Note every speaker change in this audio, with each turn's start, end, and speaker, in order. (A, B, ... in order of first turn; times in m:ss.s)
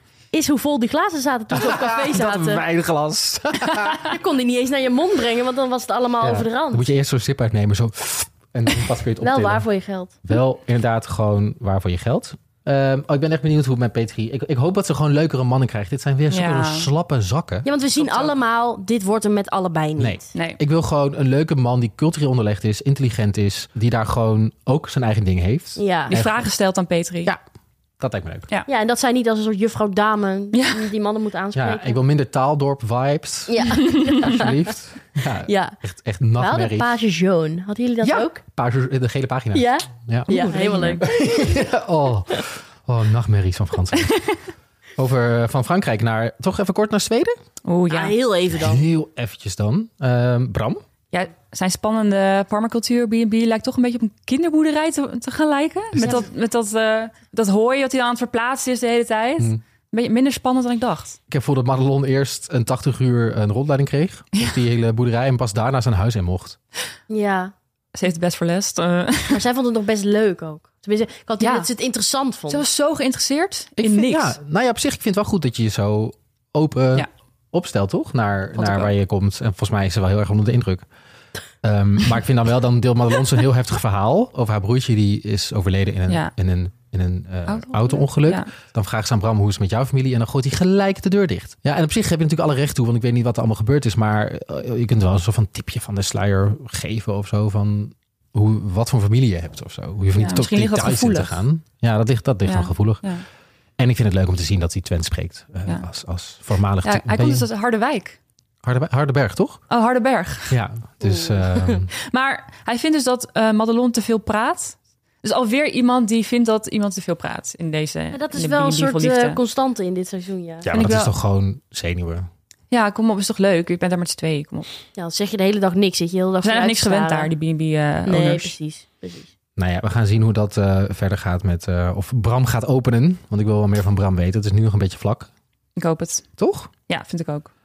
0:00.3-0:02.6 A
0:01.5-0:04.2 B
0:03.7-0:06.8 A
0:06.2-0:09.6 B
0:09.2-0:10.2 A
0:10.2-0:17.7 B
0:16.3-0:16.9 C
0:17.6-0:20.3 A
0:18.0-0:18.3 C
0:20.0-0:26.4 B
0:20.3-0:20.6 C
0:25.8-0:26.2 A
0:26.1-0:27.3 C
0:28.0-0:28.5 B
0:28.7-0:32.0 A
0:30.5-0:30.9 C
0:31.5-0:37.0 B
0:33.5-0:34.7 A
0:35.4-0:35.8 A
0:36.4-0:38.4 A
0:38.0-0:40.3 B
0:39.5-0:41.6 A
0:40.3-0:41.0 C
0:41.0-0:44.2 B
0:45.0-0:47.4 B
0:47.6-0:48.2 C
0:47.9-0:48.9 A
0:48.5-0:50.8 B
0:51.1-1:01.2 C
0:55.9-0:56.3 B
1:01.3-1:06.6 B
1:07.1-1:07.5 A
1:07.9-1:09.4 C
1:09.3-1:12.6 A
1:11.4-1:11.7 C
1:12.5-1:14.4 C
1:13.8-1:20.8 B
1:18.6-1:18.9 C
1:21.6-1:43.0 B
1:27.5-1:28.5 C
1:40.2-1:41.4 C
1:42.4-1:43.2 C
1:43.8-1:47.5 B
1:46.8-1:48.2 C
1:48.6-1:49.6 B
1:49.7-1:50.6 C
1:50.5-1:51.9 B
1:51.0-1:51.8 A
1:52.0-1:59.4 C
1:58.1-2:00.7 A
2:00.6-2:02.3 B
2:00.7-2:01.1 C
2:02.7-2:04.7 C
2:05.0-2:07.3 A
2:06.4-2:08.5 C
2:08.1-2:09.3 A
2:09.6-2:15.3 B
2:15.8-2:16.3 C
2:16.4-2:16.7 B
2:16.9-2:17.5 C